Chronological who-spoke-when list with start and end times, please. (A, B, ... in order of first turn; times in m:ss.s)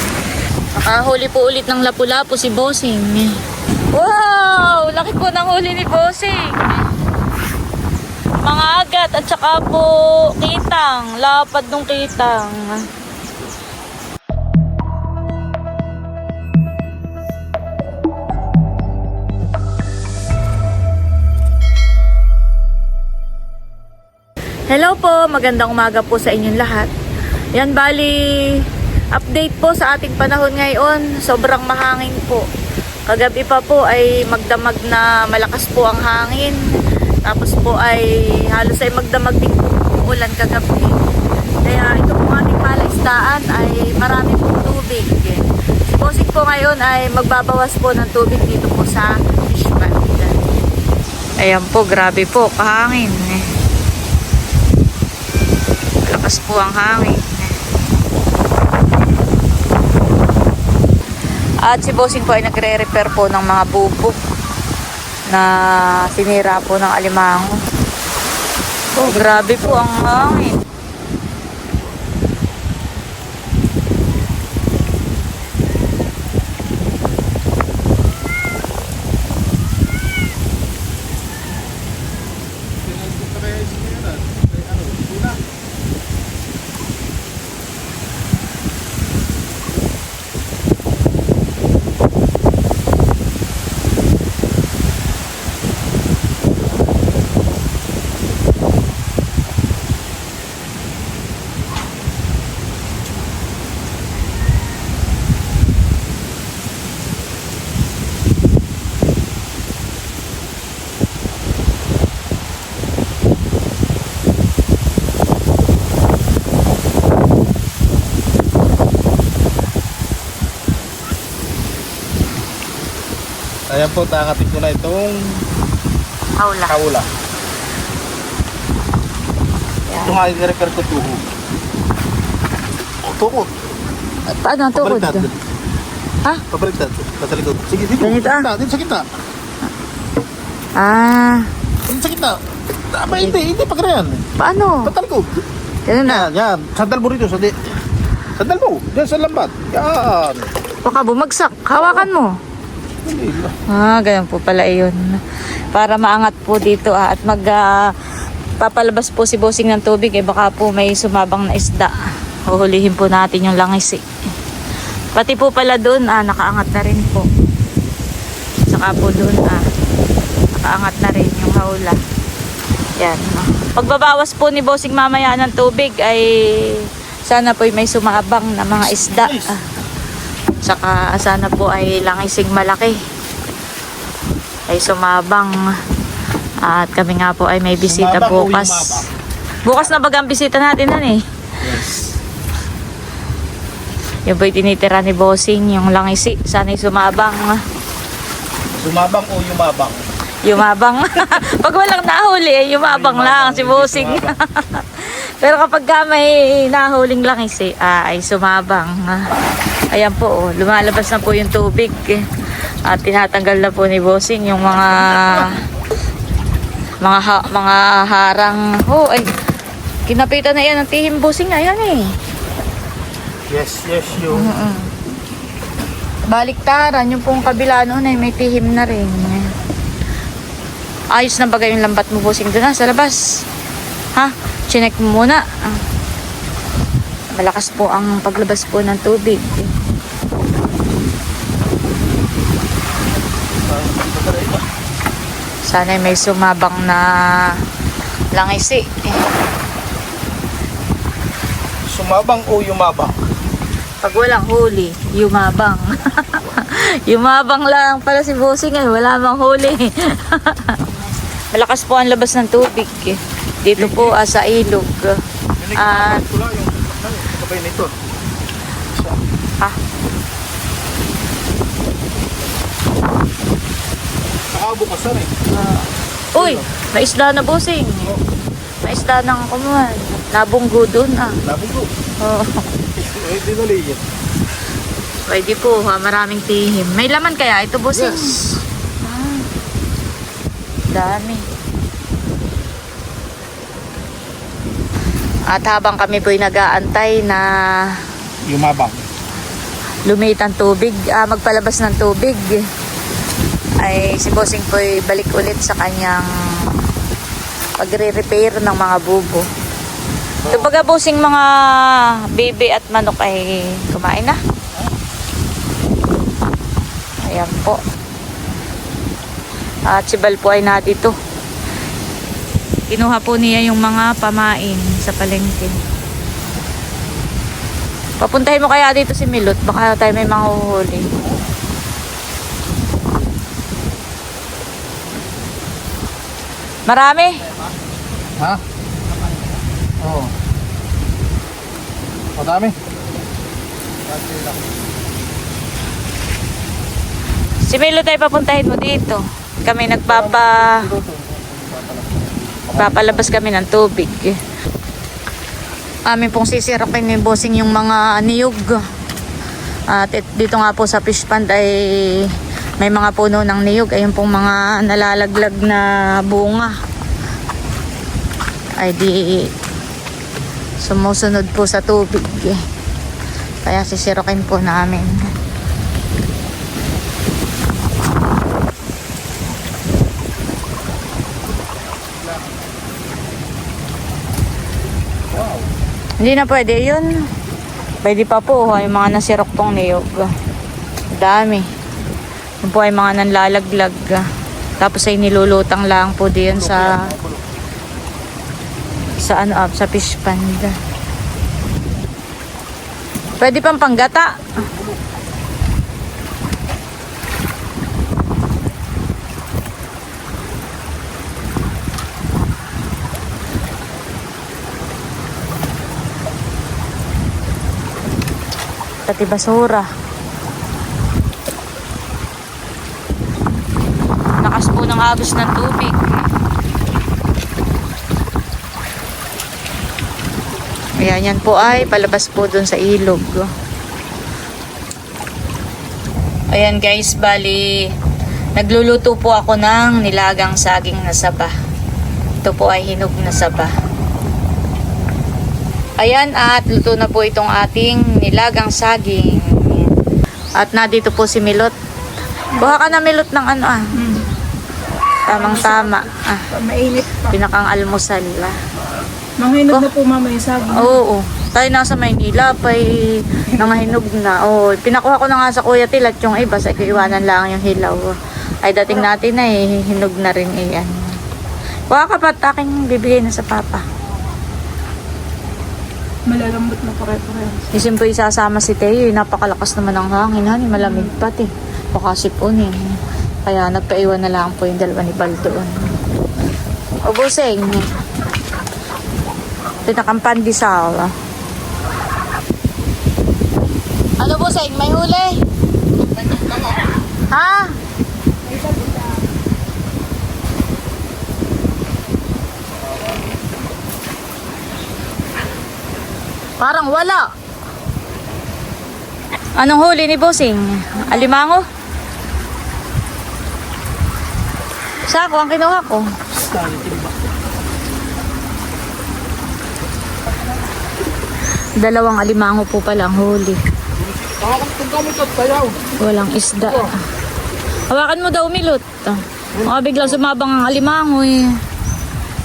0:00.8-0:03.4 A
0:03.9-0:06.8 A
0:08.4-0:12.9 A
0:24.7-0:26.9 A
0:27.6-0:32.5 A
0:33.1-0:36.6 A
0:37.2-0:41.0 A
0:41.6-0:50.4 A
0:51.4-0:53.5 A
0:56.1-0:57.5 A
1:01.6-1:04.2 A
1:05.3-1:07.6 A
1:09.0-1:10.6 A
1:09.0-1:09.8 B
1:22.8-1:25.4 B
2:03.7-2:05.3 B
2:06.4-2:06.8 A
2:06.7-2:07.1 B
2:09.9-2:10.2 A
2:10.0-2:11.2 B
2:13.0-2:13.5 B
2:14.3-2:15.3 A
2:14.7-2:15.4 B
2:16.5-2:19.0 B
2:18.0-2:18.5 A
2:20.8-2:21.5 A
2:21.9-2:22.4 B
2:22.9-2:24.2 B
2:23.1-2:23.4 A
2:24.4-2:24.9 A
2:24.9-2:25.4 B
2:25.9-2:26.3 A
2:26.0-2:27.6 B
2:28.4-2:30.5 B
2:30.8-2:32.3 A
2:31.8-2:32.1 B
2:33.0-2:33.6 B
2:33.7-2:35.1 A
2:35.7-2:37.9 A
2:38.6-2:41.9 A
2:42.5-2:44.0 A
2:45.2-2:47.3 A
2:48.7-2:49.6 A
2:50.6-2:52.0 A
2:53.0-2:59.6 A
2:59.0-2:59.6 B
3:00.6-3:03.0 A
3:04.7-3:05.6 A
3:06.6-3:09.0 A
3:07.9-3:09.1 B
3:09.6-3:11.2 A
3:11.6-3:12.0 B
3:14.3-3:17.6 A
3:18.8-3:20.0 B
3:20.4-3:29.3 A
3:22.8-3:24.4 B
3:29.9-3:32.2 A
3:32.9-3:35.6 A
3:37.0-3:39.3 A
3:40.1-3:42.1 A
3:43.5-3:44.5 B
3:44.3-3:44.9 A
3:46.3-3:49.5 A
3:51.2-3:53.2 A
3:54.2-3:55.4 A
3:57.4-3:59.7 A
4:03.6-4:04.7 B
4:05.7-4:07.6 A
4:08.4-4:08.9 A
4:11.9-4:13.2 B
4:14.0-4:20.8 A
4:21.5-4:25.2 A
4:23.8-4:24.2 B
4:25.6-4:27.9 B
4:25.8-4:26.2 A
4:28.9-4:29.2 B
4:34.5-4:35.4 B
4:35.5-4:38.2 A
4:36.4-4:36.6 B
4:38.8-4:41.4 A
4:41.4-4:41.9 B
4:42.2-4:42.6 A
4:43.0-4:44.0 B
4:45.3-4:48.4 A
4:47.9-4:48.6 B
4:49.0-4:49.4 A
4:50.9-4:51.4 A
4:55.5-4:58.0 A
4:58.4-4:59.0 B
5:00.1-5:02.6 A
5:03.8-5:06.7 A
5:07.8-5:09.4 A
5:10.4-5:10.7 B
5:10.5-5:14.4 A
5:17.2-5:17.8 A
5:19.9-5:21.2 A
5:22.9-5:25.8 A
5:28.2-5:31.0 A
5:36.9-5:37.4 A
5:40.0-5:40.3 B
5:42.4-5:42.8 B
5:44.1-5:44.7 B
5:47.7-5:50.9 A
5:50.1-5:53.3 B
5:52.8-5:54.4 A
5:56.1-5:58.8 A
5:59.9-6:06.7 A
6:08.8-6:09.5 A
6:10.8-6:12.6 A
6:13.6-6:15.2 A
6:25.3-6:25.7 B
6:26.2-6:27.1 A
6:28.0-6:30.3 A
6:31.2-6:31.7 A
6:32.6-6:34.2 A
6:34.8-6:37.1 A
6:36.5-6:37.4 B
6:39.2-6:40.7 A
6:43.4-6:44.4 A
6:44.7-6:45.0 B
6:59.1-6:59.9 A
7:04.4-7:06.1 A
7:11.0-7:13.5 A
7:16.5-7:17.9 A
7:18.6-7:21.5 A
7:22.4-7:23.7 A
7:26.0-7:29.9 A
7:30.6-7:31.7 A
7:32.6-7:33.9 A
7:34.0-7:34.3 C
7:35.2-7:36.5 A
7:35.3-7:37.3 C
7:37.3-7:38.6 A
7:39.4-7:41.0 C
7:40.7-7:51.1 A
7:51.9-7:53.8 A
7:56.3-7:57.7 C
7:57.7-8:05.9 A
8:07.0-8:07.8 A
8:09.8-8:11.1 A
8:14.2-8:15.4 A
8:16.3-8:16.8 B
8:17.3-8:17.8 A
8:18.5-8:19.1 C
8:26.6-8:27.2 A
8:29.6-8:31.6 A
8:35.1-8:36.1 A
8:36.3-8:37.1 B
8:41.8-8:43.6 A
8:44.0-8:45.9 B
8:46.0-8:46.9 A
8:47.9-8:51.6 A
8:49.6-8:50.1 B